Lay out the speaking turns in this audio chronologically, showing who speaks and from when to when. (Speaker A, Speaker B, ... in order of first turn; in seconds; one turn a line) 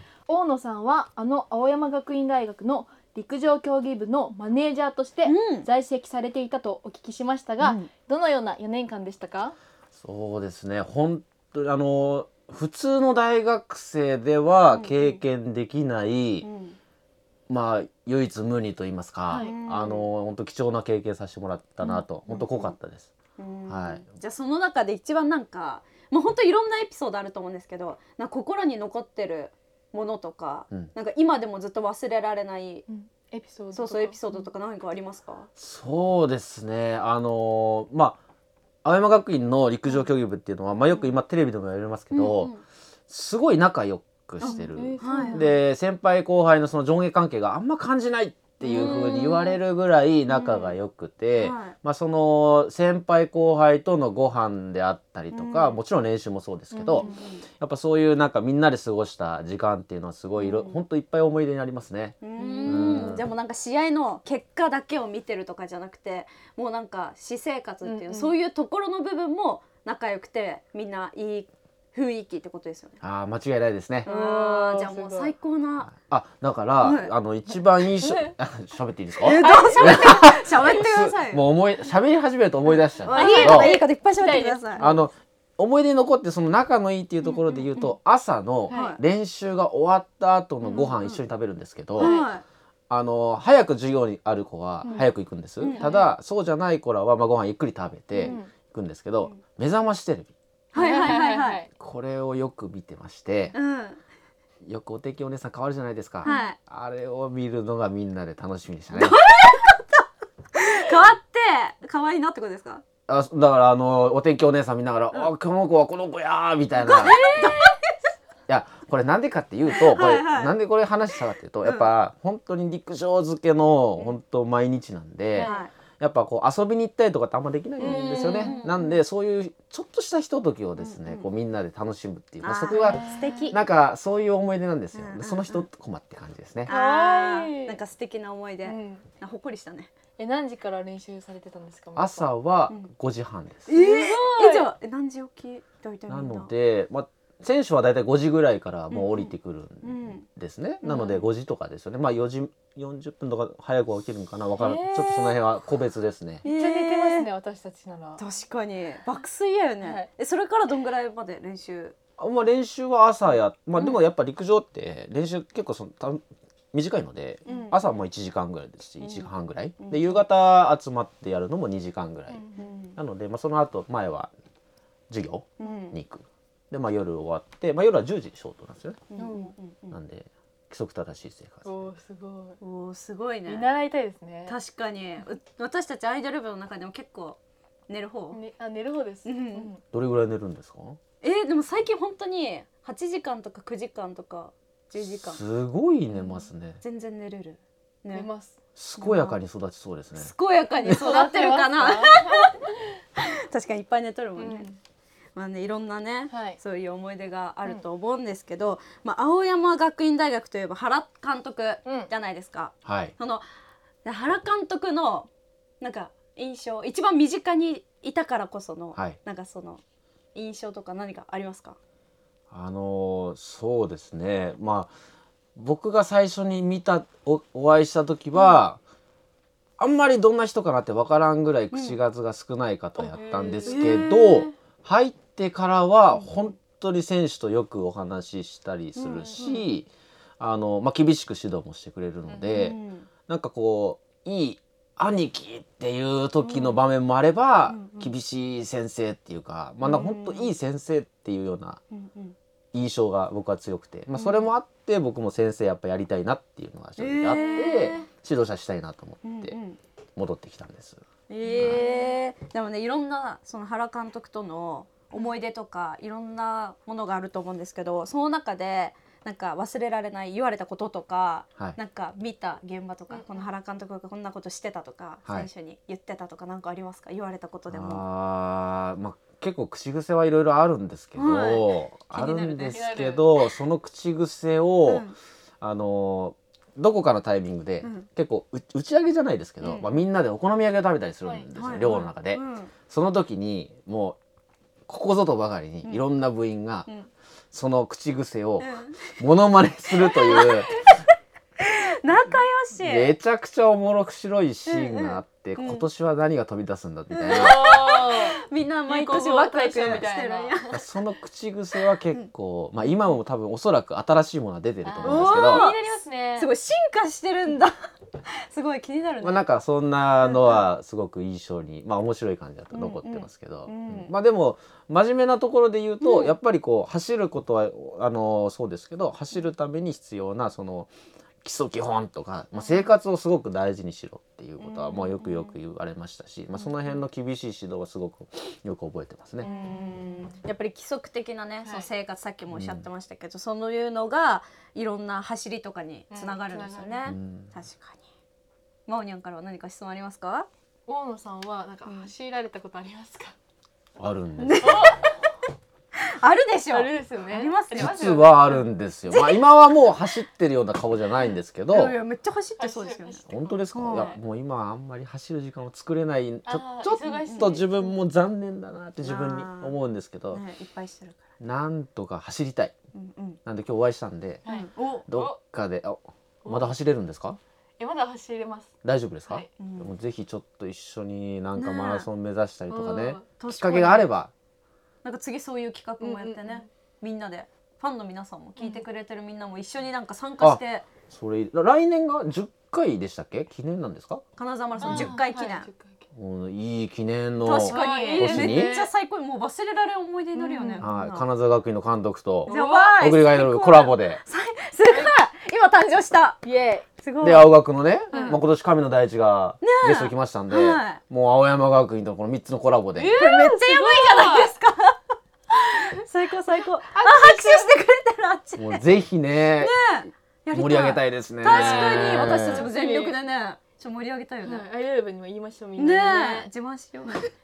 Speaker A: 0.3-9.6
Speaker B: 5.2-5.7
Speaker B: 7.6-7.9
Speaker C: 10.0-16.5
Speaker B: 14.7-15.2
Speaker B: 16.4-16.8
Speaker C: 17.5-23.1
Speaker A: 19.3-19.6
Speaker B: 19.3-20.1
Speaker B: 21.8-22.8
Speaker B: 23.4-32.9
Speaker C: 23.7-24.1
Speaker A: 32.9-34.5
Speaker B: 33.7-35.5
Speaker C: 35.6-38.2
Speaker C: 38.8-42.5
Speaker B: 42.1-42.6
Speaker C: 43.1-63.3
Speaker B: 44.4-45.5
Speaker A: 44.4-45.6
Speaker B: 48.6-49.6
Speaker A: 48.6-49.1
Speaker B: 50.4-50.8
Speaker B: 51.4-51.8
Speaker B: 55.3-55.8
Speaker A: 56.7-57.2
Speaker B: 56.9-57.4
Speaker B: 60.4-60.8
Speaker B: 62.2-73.0
Speaker A: 62.4-63.2
Speaker A: 67.8-68.4
Speaker C: 73.0-74.1
Speaker B: 74.0-75.9
Speaker A: 74.1-75.3
Speaker C: 75.9-83.8
Speaker B: 76.8-77.1
Speaker A: 78.0-78.3
Speaker B: 79.2-81.4
Speaker A: 79.3-80.2
Speaker B: 83.0-84.9
Speaker A: 83.1-85.1
Speaker C: 84.8-92.2
Speaker B: 87.2-87.7
Speaker A: 88.7-89.0
Speaker B: 88.7-89.0
Speaker A: 90.6-91.0
Speaker B: 90.7-91.2
Speaker B: 92.0-92.4
Speaker A: 92.0-92.3
Speaker C: 92.9-100.3
Speaker A: 94.8-95.1
Speaker B: 95.6-95.9
Speaker A: 95.6-96.1
Speaker B: 98.1-98.4
Speaker A: 98.2-98.5
Speaker B: 100.7-101.6
Speaker A: 100.8-101.7
Speaker C: 101.8-103.6
Speaker B: 103.5-104.0
Speaker C: 104.6-109.2
Speaker A: 106.2-106.5
Speaker B: 106.2-106.6
Speaker B: 108.9-110.0
Speaker B: 110.5-112.8
Speaker C: 113.1-117.2
Speaker B: 116.8-117.9
Speaker A: 117.0-117.7
Speaker C: 118.5-136.7
Speaker B: 119.7-120.6
Speaker B: 121.1-121.9
Speaker A: 125.3-125.7
Speaker B: 125.4-125.7
Speaker B: 127.8-128.9
Speaker A: 127.8-128.9
Speaker B: 130.8-131.3
Speaker B: 132.4-133.6
Speaker A: 132.7-133.6
Speaker B: 134.9-135.7
Speaker A: 136.7-137.8
Speaker B: 136.7-139.9
Speaker A: 138.6-139.1
Speaker A: 140.2-142.3
Speaker C: 141.9-143.8
Speaker B: 143.7-146.5
Speaker A: 143.7-144.7
Speaker C: 146.1-156.4
Speaker B: 148.9-150.3
Speaker B: 150.8-151.2
Speaker A: 154.6-155.4
Speaker B: 156.4-157.3
Speaker A: 156.4-158.2
Speaker B: 158.2-162.0
Speaker A: 159.8-160.1
Speaker C: 162.2-166.2
Speaker B: 163.8-164.0
Speaker C: 166.7-174.3
Speaker B: 167.5-167.8
Speaker B: 169.0-170.2
Speaker A: 172.3-172.7
Speaker B: 172.6-173.0
Speaker C: 175.1-179.0
Speaker B: 175.6-176.0
Speaker B: 179.1-180.0
Speaker A: 179.2-179.5
Speaker C: 179.9-181.8
Speaker A: 181.6-182.6
Speaker B: 182.6-183.7
Speaker A: 183.5-184.6
Speaker B: 184.5-187.4
Speaker B: 187.9-188.4
Speaker A: 188.3-189.8
Speaker B: 189.2-189.7
Speaker C: 189.9-191.0
Speaker B: 191.2-195.4
Speaker C: 195.0-196.8
Speaker B: 196.2-198.3
Speaker A: 198.1-199.4
Speaker C: 198.8-200.3
Speaker B: 200.2-202.6
Speaker A: 200.8-202.7
Speaker B: 203.2-204.7
Speaker A: 204.4-204.8
Speaker B: 205.3-213.4
Speaker A: 206.3-206.6
Speaker A: 211.8-212.1
Speaker C: 212.8-213.1
Speaker B: 214.0-215.3
Speaker B: 215.8-219.8
Speaker B: 220.3-221.8
Speaker C: 222.5-224.9
Speaker C: 225.6-228.8
Speaker C: 229.8-239.9
Speaker B: 231.7-232.0
Speaker A: 233.0-234.1
Speaker B: 233.7-234.5
Speaker B: 236.1-236.6
Speaker B: 238.9-239.7
Speaker A: 239.2-239.7
Speaker C: 240.4-251.8
Speaker A: 242.3-242.6
Speaker B: 242.5-243.1
Speaker B: 246.4-246.8
Speaker B: 247.7-248.1
Speaker B: 249.8-250.6
Speaker B: 251.9-252.4
Speaker C: 252.7-259.6
Speaker B: 254.2-254.5
Speaker B: 257.0-258.1
Speaker A: 257.3-258.0
Speaker B: 259.2-259.8
Speaker C: 260.2-261.0
Speaker B: 261.3-278.1
Speaker C: 261.5-261.8
Speaker A: 261.6-262.1
Speaker A: 273.1-273.5
Speaker C: 277.7-285.1
Speaker B: 281.2-282.9
Speaker A: 282.7-283.3
Speaker B: 284.9-285.2
Speaker C: 285.6-294.2
Speaker B: 287.8-288.1
Speaker B: 289.6-289.9
Speaker A: 291.2-292.1
Speaker B: 291.6-292.7
Speaker C: 294.9-296.9
Speaker C: 297.5-300.9
Speaker B: 298.6-299.1
Speaker B: 300.0-300.9
Speaker B: 301.6-303.1
Speaker C: 302.3-307.6
Speaker B: 304.7-305.9
Speaker B: 307.1-310.8
Speaker A: 307.3-308.4
Speaker A: 308.9-310.8
Speaker C: 310.7-315.7
Speaker B: 312.1-313.1
Speaker A: 314.8-316.5
Speaker B: 315.0-317.7
Speaker B: 318.3-319.5
Speaker C: 319.2-330.9
Speaker B: 320.3-320.6
Speaker B: 322.7-324.1
Speaker B: 326.0-326.4
Speaker C: 331.4-339.5
Speaker B: 334.6-335.6
Speaker B: 336.6-336.8
Speaker B: 339.4-348.0
Speaker A: 339.4-340.3
Speaker A: 341.6-341.9
Speaker C: 342.5-342.9
Speaker A: 346.1-347.1
Speaker C: 347.1-347.6
Speaker B: 348.9-350.5
Speaker A: 350.9-353.4
Speaker B: 351.9-352.1
Speaker C: 354.0-355.1
Speaker B: 354.4-355.0
Speaker A: 354.6-355.1
Speaker B: 356.1-358.2
Speaker A: 356.7-358.7
Speaker C: 357.7-361.9
Speaker B: 359.1-360.2
Speaker B: 361.7-364.1
Speaker A: 362.6-364.2
Speaker C: 363.3-370.4
Speaker A: 366.5-368.0
Speaker B: 367.2-367.6
Speaker B: 369.0-369.8
Speaker B: 370.3-371.2
Speaker C: 371.4-372.8
Speaker B: 372.9-373.4
Speaker C: 373.4-374.5
Speaker A: 374.4-375.4
Speaker B: 374.5-375.0
Speaker C: 375.1-377.4
Speaker A: 376.4-376.8
Speaker A: 377.8-378.7
Speaker C: 378.8-384.3
Speaker B: 379.6-379.9
Speaker B: 381.6-382.1
Speaker A: 382.7-383.3
Speaker B: 383.4-384.1
Speaker B: 385.0-390.9
Speaker A: 386.0-386.7
Speaker A: 388.6-388.8
Speaker C: 390.4-394.2
Speaker B: 394.4-395.7
Speaker C: 394.8-395.1
Speaker A: 394.8-396.1
Speaker C: 396.1-398.8
Speaker B: 397.4-401.3
Speaker A: 397.7-398.9
Speaker A: 400.3-400.9
Speaker C: 400.8-404.2
Speaker A: 402.5-403.0
Speaker B: 402.5-406.4
Speaker A: 404.9-405.1
Speaker A: 406.4-406.9
Speaker B: 407.0-407.5
Speaker C: 407.2-413.2
Speaker A: 408.1-408.4
Speaker B: 408.1-408.4
Speaker B: 409.6-411.0
Speaker A: 412.9-414.5
Speaker B: 413.1-415.0
Speaker B: 415.5-418.8
Speaker A: 416.9-417.7
Speaker C: 418.6-419.7
Speaker B: 419.6-424.7
Speaker C: 420.5-422.7
Speaker A: 421.4-423.2
Speaker A: 424.4-426.5
Speaker B: 425.8-427.3